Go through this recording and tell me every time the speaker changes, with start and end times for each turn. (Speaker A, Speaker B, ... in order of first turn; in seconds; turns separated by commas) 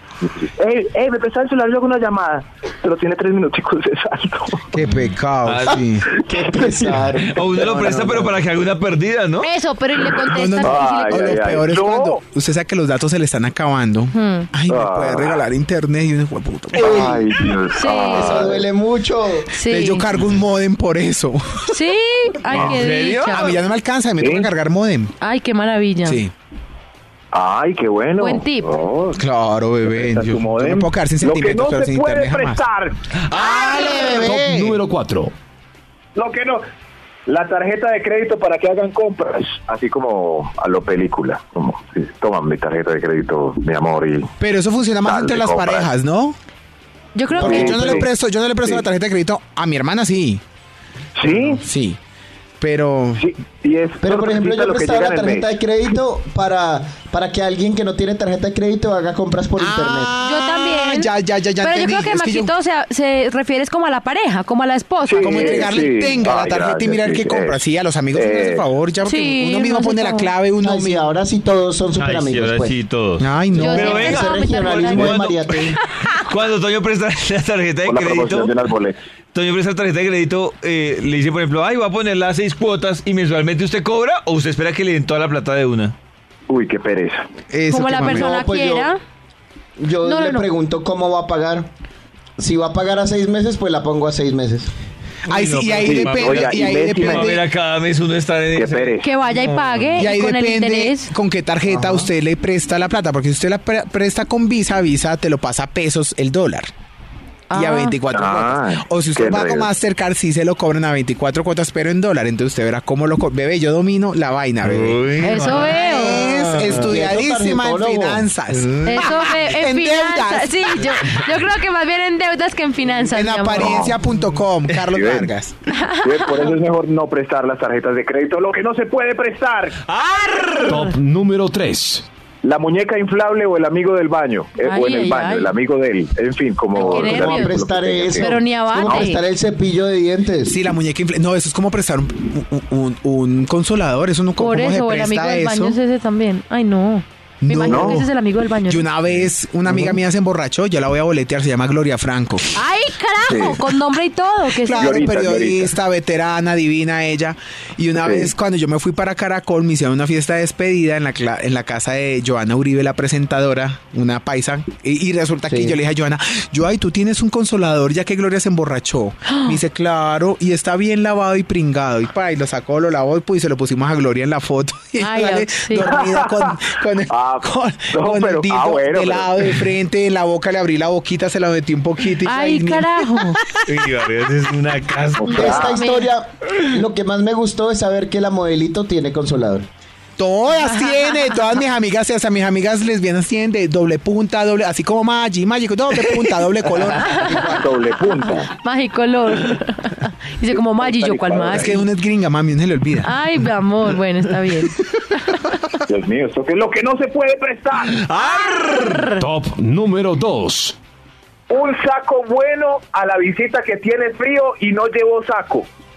Speaker A: 0.2-4.7, Speaker B: 4.7-6.1, Speaker C: 5.4-5.8, Speaker D: 5.7-8.4, Speaker A: 6.1-8.2, Speaker C: 7.2-9.5, Speaker E: 9.4-11.5, Speaker B: 10.2-17.2, Speaker A: 10.6-12.2, Speaker E: 14.1-14.5, Speaker A: 14.7-15.4, Speaker A: 16.7-18.7, Speaker D: 16.8-17.3, Speaker E: 17.7-18.5, Speaker D: 18.1-19.5, Speaker E: 19.5-20.1, Speaker B: 19.6-21.8, Speaker E: 21.7-23.5, Speaker C: 22.5-23.5, Speaker B: 23.3-25.1, Speaker A: 24.2-24.5, Speaker E: 25.2-26.2, Speaker B: 26.0-26.3, Speaker A: 27.3-29.2, Speaker E: 28.2-28.7, Speaker B: 29.1-32.6, Speaker A: 29.9-33.2, Speaker B: 33.3-34.7, Speaker E: 33.4-34.1, Speaker D: 33.4-34.5, Speaker F: 34.1-35.3, Speaker A: 36.1-36.6, Speaker A: 37.3-44.3, Speaker B: 44.4-46.4, Speaker A: 45.0-45.9, Speaker E: 47.1-48.0, Speaker D: 47.4-48.0, Speaker B: 47.4-50.4, Speaker A: 47.4-48.1, Speaker A: 51.2-51.6, Speaker B: 51.2-52.0, Speaker B: 52.6-53.3, Speaker A: 53.2-55.5, Speaker D: 54.0-60.1, Speaker B: 59.6-62.5, Speaker E: 60.2-65.8, Speaker A: 65.0-67.6, Speaker B: 65.2-71.0, Speaker A: 68.1-68.6, Speaker E: 69.0-70.3, Speaker D: 70.6-72.7, Speaker C: 72.0-78.7, Speaker B: 73.2-74.1, Speaker E: 73.5-75.2, Speaker D: 73.6-75.8, Speaker E: 75.8-76.2, Speaker A: 77.8-79.0, Speaker C: 79.3-85.9, Speaker A: 86.5-87.2, Speaker B: 87.5-88.3, Speaker E: 87.7-89.0, Speaker D: 88.0-88.9, Speaker D: 89.8-91.7, Speaker E: 90.0-90.5, Speaker D: 92.4-94.7, Speaker B: 95.3-97.4, Speaker C: 95.3-100.0, Speaker A: 95.8-97.4, Speaker A: 98.5-99.1, Speaker E: 99.0-101.1, Speaker B: 100.0-106.7, Speaker D: 101.7-102.1, Speaker E: 107.5-108.0, Speaker B: 107.5-120.8, Speaker A: 108.1-109.7, Speaker C: 114.6-116.9, Speaker E: 115.2-116.2, Speaker D: 116.6-118.2, Speaker C: 118.5-119.2, Speaker E: 118.8-123.9, Speaker B: 123.0-125.5, Speaker A: 123.6-124.0, Speaker A: 124.9-125.3, Speaker E: 125.7-126.5, Speaker A: 126.0-129.8, Speaker C: 129.9-130.9, Speaker F: 130.7-132.1, Speaker A: 132.4-139.1, Speaker E: 134.6-135.5, Speaker E: 136.7-137.6, Speaker D: 136.8-140.6, Speaker E: 138.2-139.2, Speaker B: 140.4-145.8, Speaker E: 144.4-148.8, Speaker B: 147.4-148.1, Speaker A: 147.7-148.0, Speaker B: 148.6-152.5, Speaker E: 152.5-155.2, Speaker A: 153.2-153.7, Speaker B: 154.6-183.7, Speaker A: 154.8-155.7, Speaker A: 158.0-158.3, Speaker D: 165.5-165.8, Speaker E: 169.3-169.6, Speaker E: 175.0-176.0, Speaker A: 175.9-179.5, Speaker E: 182.2-183.4, Speaker C: 183.6-185.7, Speaker A: 185.2-185.8, Speaker E: 185.2-186.1, Speaker D: 185.3-189.7, Speaker B: 190.2-197.3, Speaker E: 190.7-191.1, Speaker E: 197.0-197.6, Speaker A: 197.0-198.5, Speaker E: 198.2-201.8, Speaker A: 200.5-201.8, Speaker B: 201.5-203.2, Speaker E: 203.0-205.4, Speaker A: 205.8-208.1, Speaker C: 207.9-209.1, Speaker E: 208.2-209.2, Speaker F: 209.1-210.8, Speaker A: 211.5-215.7